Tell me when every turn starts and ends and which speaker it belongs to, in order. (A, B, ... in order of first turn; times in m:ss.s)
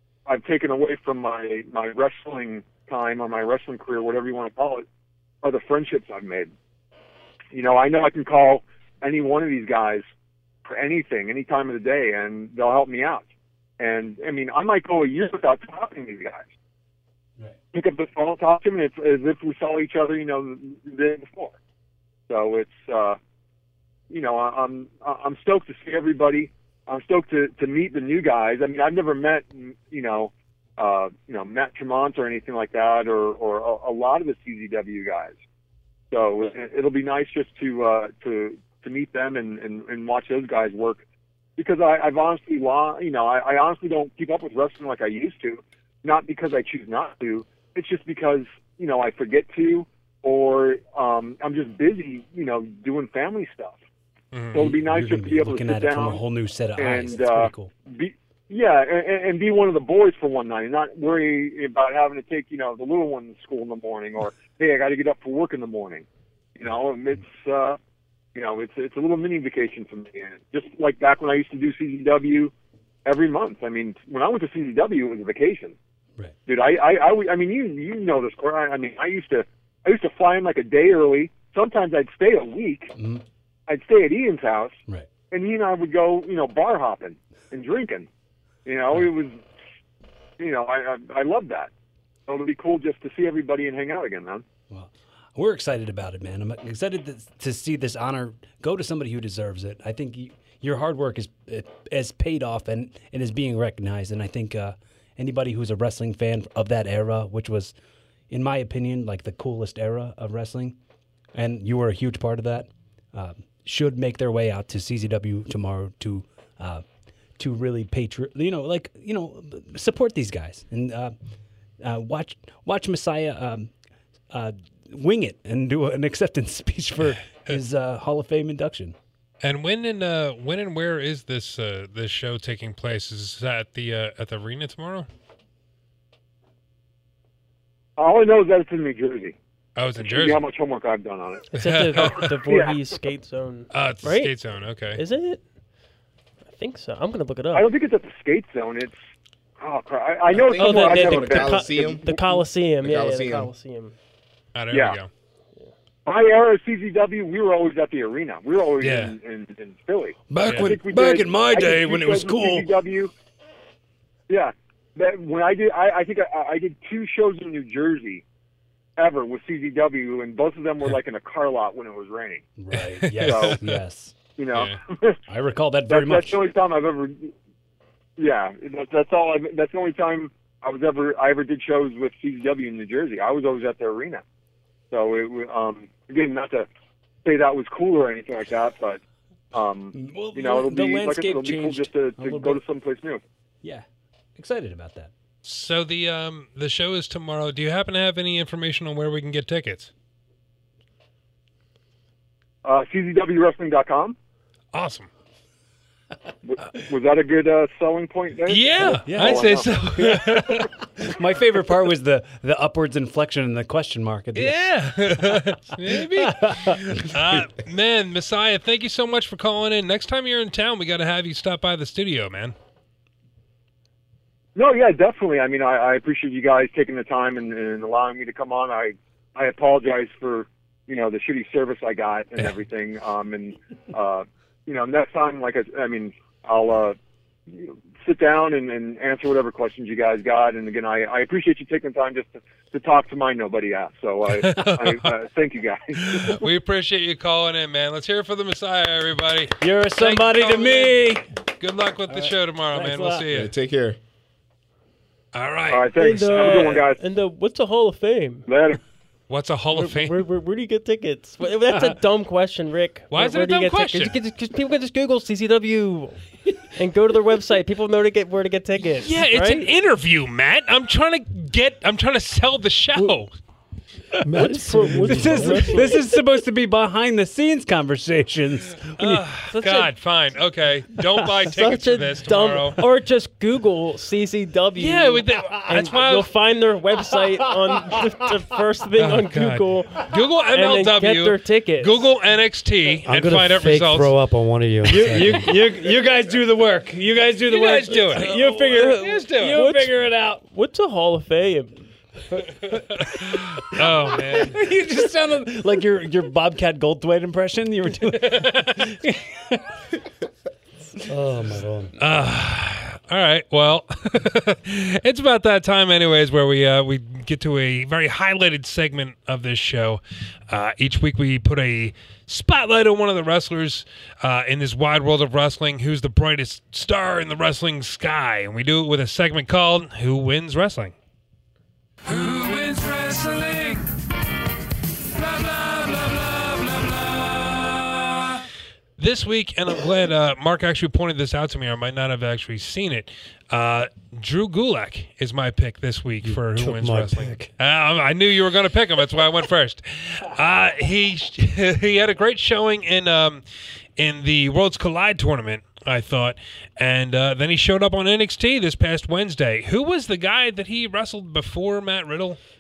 0:00.3-0:04.8 A
0:05.4-0:06.5 A
0:07.5-0:10.1 A
0:10.6-0:13.3 A
0:13.8-0:16.5 A
0:17.7-0:21.6 A
0:22.3-0:23.2 A
0:24.1-0:35.4 A
0:36.1-0:41.0 A
0:41.6-0:53.8 A
0:54.3-0:54.7 B
0:54.5-0:56.2 A
0:54.5-0:57.7 C
0:56.8-1:07.8 A
1:08.3-1:12.5 A
1:13.0-1:15.8 A
1:16.4-1:22.9 A
1:22.9-1:23.2 C
1:23.7-1:24.8 A
1:25.3-1:28.1 A
1:28.6-1:29.4 A
1:30.4-1:31.7 A
1:32.3-1:34.4 A
1:34.7-1:47.7 C
1:48.3-1:50.8 C
1:51.3-1:56.8 C
1:57.4-2:01.1 C
2:01.8-2:03.7 C
2:04.3-2:09.0 C
2:09.4-2:15.1 B
2:18.0-2:19.4 A
2:19.8-2:20.4 B
2:20.0-2:21.5 A
2:21.5-2:24.3 D
2:21.6-2:22.3 B
2:22.5-2:22.8 A
2:23.7-2:25.0 B
2:24.9-2:25.4 D
2:26.5-2:27.7 D
2:27.5-2:29.0 A
2:29.6-2:31.6 A
2:30.3-2:33.5 E
2:30.5-2:33.9 D
2:34.5-2:35.1 B
2:34.7-2:35.0 A
2:36.0-2:43.1 A
2:38.8-2:39.1 B
2:40.3-2:42.8 C
2:40.4-2:40.8 B
2:44.3-2:48.2 A
2:49.0-2:52.4 A
2:52.6-2:54.2 C
2:52.7-2:53.8 B
2:53.2-2:53.6 A
2:54.4-2:55.2 A
2:54.5-2:54.8 B
2:55.3-2:56.4 C
2:55.9-2:57.3 A
2:58.2-3:04.2 A
3:04.9-3:06.7 A
3:07.2-3:09.0 A
3:09.5-3:13.2 A
3:09.9-3:12.6 C
3:14.4-3:15.1 C
3:15.4-3:19.9 B
3:22.6-3:24.2 A
3:24.7-3:25.1 B
3:26.4-3:29.8 A
3:28.4-3:30.7 B
3:28.8-3:34.6 C
3:34.3-3:42.5 B
3:35.2-3:37.4 C
3:44.5-3:57.0 A
3:57.5-4:06.4 A
4:04.3-4:05.2 B
4:06.0-4:13.5 B
4:09.6-4:11.2 C
4:12.1-4:13.3 C
4:13.3-4:14.0 E
4:15.3-4:16.7 B
4:15.7-4:17.0 A
4:15.9-4:18.4 D
4:18.5-4:18.8 A
4:19.3-4:20.2 B
4:19.7-4:29.7 D
4:21.7-4:22.0 C
4:23.1-4:24.1 B
4:29.0-4:33.3 B
4:34.2-4:36.0 F
4:34.3-4:36.0 D
4:34.4-4:39.2 C
4:39.0-4:42.8 B
4:39.5-4:39.9 D
4:41.4-4:52.0 D
4:44.8-4:46.3 B
4:45.5-4:45.8 C
4:47.1-4:48.4 C
4:49.0-4:54.2 B
4:53.0-4:55.5 F
4:54.8-5:00.4 C
4:57.4-4:59.6 B
4:59.2-5:01.8 D
5:02.7-5:09.8 C
5:03.0-5:04.6 B
5:08.1-5:08.9 B
5:11.1-5:11.9 F
5:12.0-5:30.9 B
5:32.0-5:33.9 B
5:35.1-5:38.4 B
5:39.0-5:53.4 B
5:46.2-5:47.5 F
5:54.0-6:02.4 B